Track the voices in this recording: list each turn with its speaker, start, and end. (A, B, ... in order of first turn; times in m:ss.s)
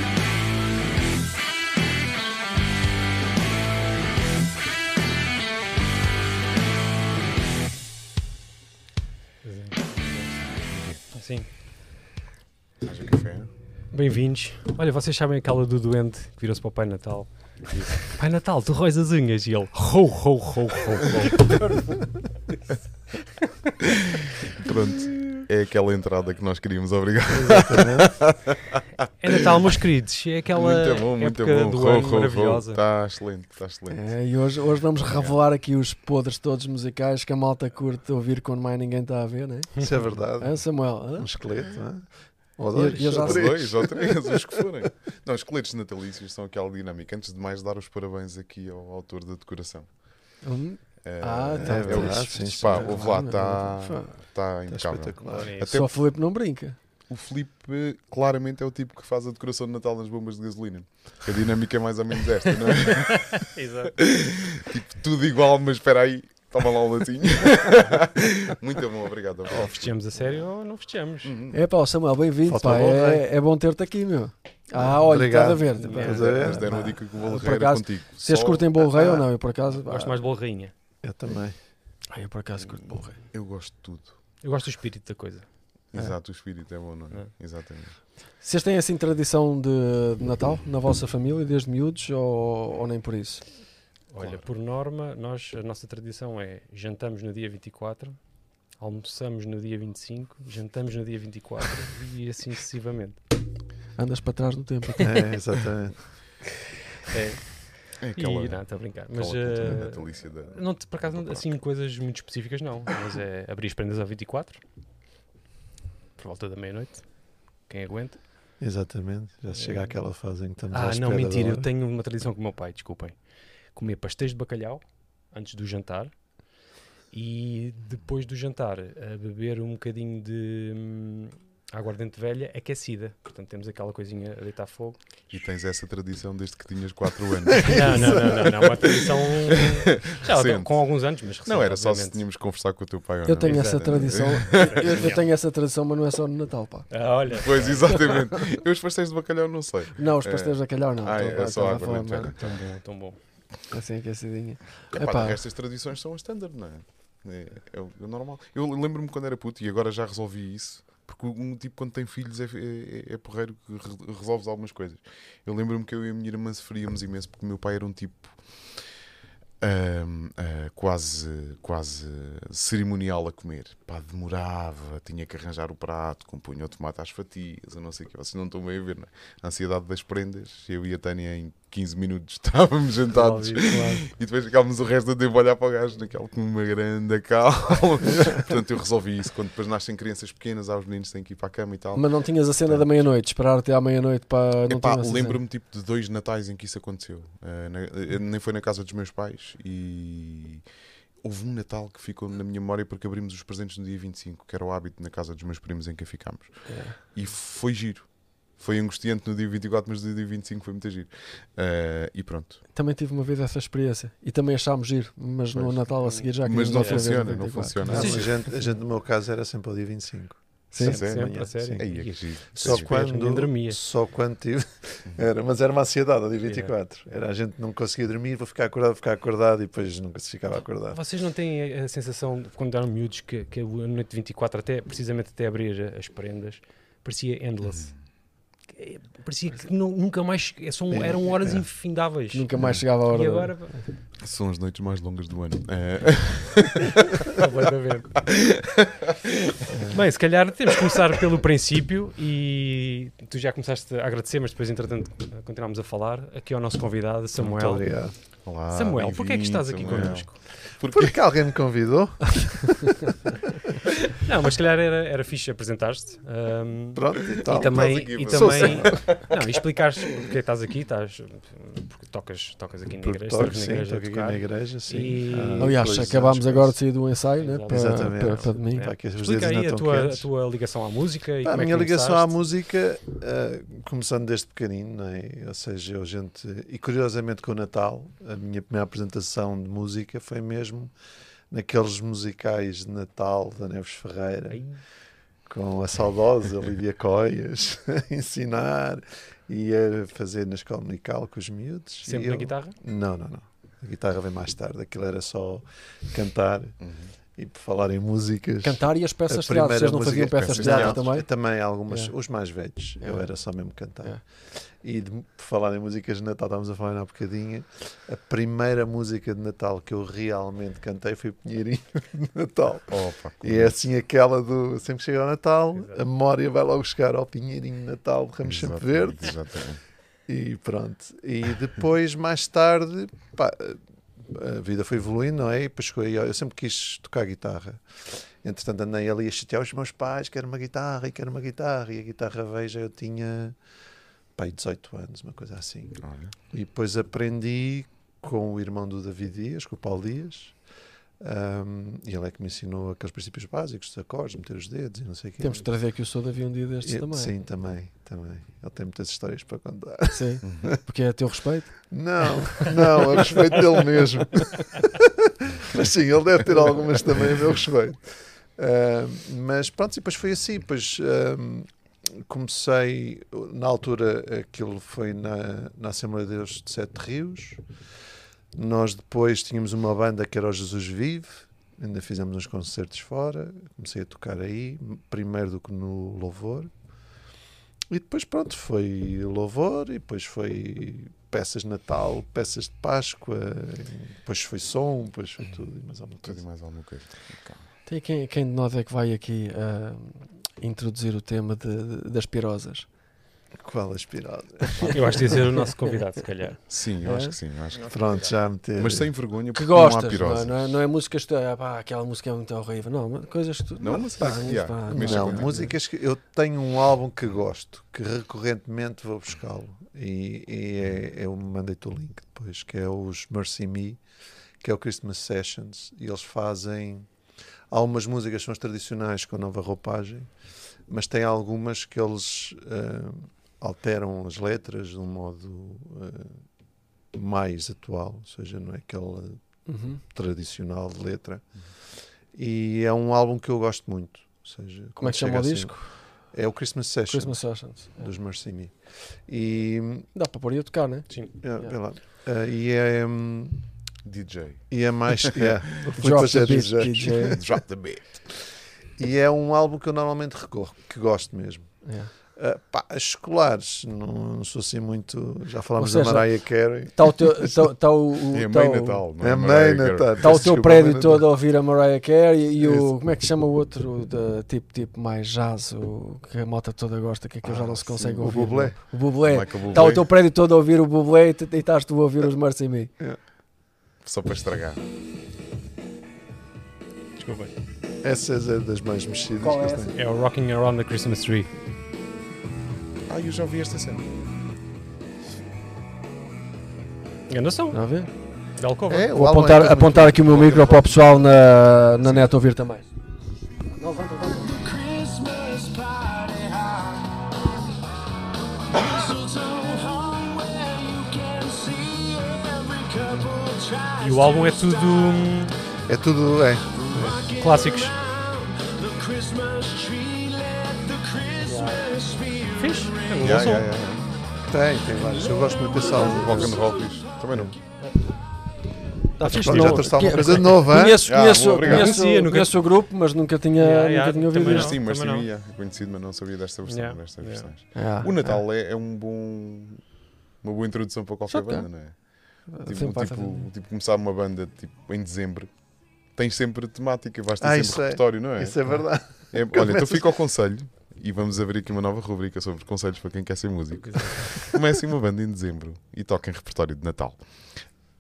0:09.4-0:10.4 A
0:10.7-0:11.0 B
0:11.1-0:11.5 A
0:12.8-0:13.5 B
0:13.9-0:21.8 A
0:21.6-0:22.0 C
0:24.5-0:28.8 B
0:27.5-0:28.1 D
0:29.2-0:32.8 A
0:30.5-0:34.1 B
0:33.9-0:41.3 C
0:35.0-0:35.4 B
0:39.8-0:44.6 D
0:42.7-0:43.5 C
0:43.2-0:50.3 B
0:50.4-0:54.1 C
0:51.0-0:55.9 B
0:51.6-0:53.1 D
0:54.7-0:55.6 D
0:55.2-0:55.7 A
0:55.7-0:56.8 C
0:57.1-1:09.9 B
1:03.3-1:04.0 A
1:09.5-1:11.3 A
1:11.2-1:11.6 B
1:11.5-1:20.2 C
1:12.4-1:13.2 D
1:14.7-1:16.7 D
1:15.8-1:16.3 A
1:16.0-1:18.7 B
1:18.8-1:19.3 D
1:19.8-1:20.7 A
1:21.0-1:21.6 D
1:22.1-1:23.2 C
1:22.6-1:24.2 B
1:24.4-1:25.5 A
1:25.9-1:28.0 B
1:28.4-1:33.4 C
1:34.1-1:38.2 A
1:34.2-1:34.5 B
1:38.8-1:43.2 A
1:44.0-1:45.3 C
1:45.0-1:46.1 D
1:47.1-1:54.6 A
1:48.0-1:51.6 B
1:56.2-1:58.2 A
1:58.6-2:01.7 D
1:59.5-1:59.9 A
2:00.7-2:06.6 A
2:07.1-2:15.2 A
2:15.3-2:19.0 B
2:17.6-2:22.2 A
2:19.6-2:25.0 B
2:23.2-2:26.9 C
2:24.6-2:25.2 A
2:26.9-2:28.0 A
2:27.3-2:32.6 B
2:27.9-2:28.2 C
2:30.0-2:32.3 C
2:32.4-2:33.2 A
2:33.7-2:35.4 C
2:34.9-2:48.8 B
2:49.6-3:13.0 B
3:03.1-3:03.7 A
3:03.7-3:04.0 C
3:12.0-3:15.4 C
3:14.7-3:20.6 B
3:21.2-3:32.6 B
3:26.7-3:27.0 C
3:32.7-3:38.6 C
3:35.5-3:38.4 B
3:36.0-3:37.1 A
3:37.8-3:51.0 D
3:40.7-3:41.0 C
3:40.8-3:42.9 B
3:40.8-3:43.8 A
3:46.4-3:46.7 A
3:50.9-4:02.5 A
3:57.7-3:57.9 B
4:00.9-4:01.7 D
4:02.3-4:03.8 C
4:02.6-4:02.8 B
4:03.0-4:03.8 A
4:04.2-4:07.2 B
4:07.3-4:08.2 A
4:08.3-4:09.2 B
4:09.9-4:17.9 A
4:17.5-4:18.2 D
4:18.4-4:21.2 B
4:18.7-4:20.4 A
4:20.9-4:23.0 D
4:24.2-4:36.0 A
4:27.0-4:29.2 D
4:27.6-4:29.3 B
4:33.0-4:36.8 D
4:35.6-4:38.9 C
4:37.4-4:42.4 A
4:37.7-4:40.3 D
4:41.4-4:50.9 D
4:51.5-4:54.6 D
4:54.5-4:54.8 A
4:55.5-5:06.8 D
5:02.0-5:02.8 A
5:06.8-5:07.1 B
5:07.4-5:29.4 D
5:08.6-5:11.3 C
5:10.3-5:11.0 B
5:13.0-5:13.3 C
5:22.9-5:23.7 B
5:25.8-5:26.0 A
5:28.4-5:29.8 B
5:30.3-5:43.6 D
5:44.4-5:50.6 D
5:46.0-5:46.3 B
5:51.2-5:55.7 D
5:55.4-5:57.3 C
5:56.8-6:00.8 D
6:00.1-6:03.6 C
6:01.9-6:17.6 D
6:18.5-6:26.7 D
6:27.9-6:36.4 D
6:36.2-6:37.6 B
6:37.9-6:42.9 C
6:43.6-6:45.4 D
6:44.8-6:45.4 C
6:44.9-6:46.6 A
6:46.7-6:48.0 B
6:47.0-6:47.4 C
6:47.9-6:49.1 D
6:48.8-6:50.6 B
6:49.5-6:55.7 C
6:53.8-6:55.7 B
6:54.9-7:04.0 D
7:04.6-7:07.1 D
7:07.7-7:10.3 D
7:10.9-7:16.4 D
7:17.1-7:21.5 D
7:19.7-7:20.0 C
7:22.3-7:30.1 D
7:25.0-7:25.9 C
7:27.1-7:28.1 C
7:30.1-7:31.8 C
7:31.4-7:33.6 D
7:34.0-7:36.4 B
7:34.7-7:37.6 D
7:36.0-7:37.4 C
7:37.4-7:38.0 B
7:39.0-7:47.7 D
7:41.8-7:42.1 C
7:45.8-7:46.3 C
7:46.9-7:49.0 C
7:48.3-7:50.3 B
7:49.2-7:51.3 D
7:50.2-8:02.9 C
7:52.6-7:52.9 D
7:57.4-7:58.8 D
7:59.2-8:00.1 B
8:04.0-8:04.8 B
8:07.2-8:07.5 A
8:08.0-8:09.9 D
8:09.4-8:10.0 C
8:10.0-8:11.5 A
8:13.1-8:14.1 B
8:17.3-8:17.8 A
8:17.7-8:18.1 C
8:18.6-8:19.1 A
8:18.9-8:20.8 D
8:19.1-8:22.9 C
8:20.2-8:20.8 B
8:22.0-8:22.3 B
8:23.8-8:24.5 C
8:24.3-8:27.1 E
8:28.7-8:35.4 E
8:34.0-8:35.5 A
8:35.9-8:36.7 D
8:36.7-8:43.5 E
8:36.9-8:37.9 A
8:41.4-8:41.8 C
8:42.6-8:43.7 A
8:43.2-8:44.1 B
8:44.5-8:46.6 D
8:45.2-8:46.9 E
8:46.0-8:47.6 B
8:49.2-8:54.8 C
8:49.2-8:51.1 D
8:49.3-8:52.0 B
8:51.6-8:52.5 A
8:53.6-8:55.3 A
8:54.4-8:59.8 B
8:56.7-8:57.5 A
8:57.8-8:58.4 C
9:00.4-9:17.6 B
9:01.3-9:01.7 C
9:02.5-9:03.5 C
9:07.4-9:10.0 D
9:13.8-9:14.4 A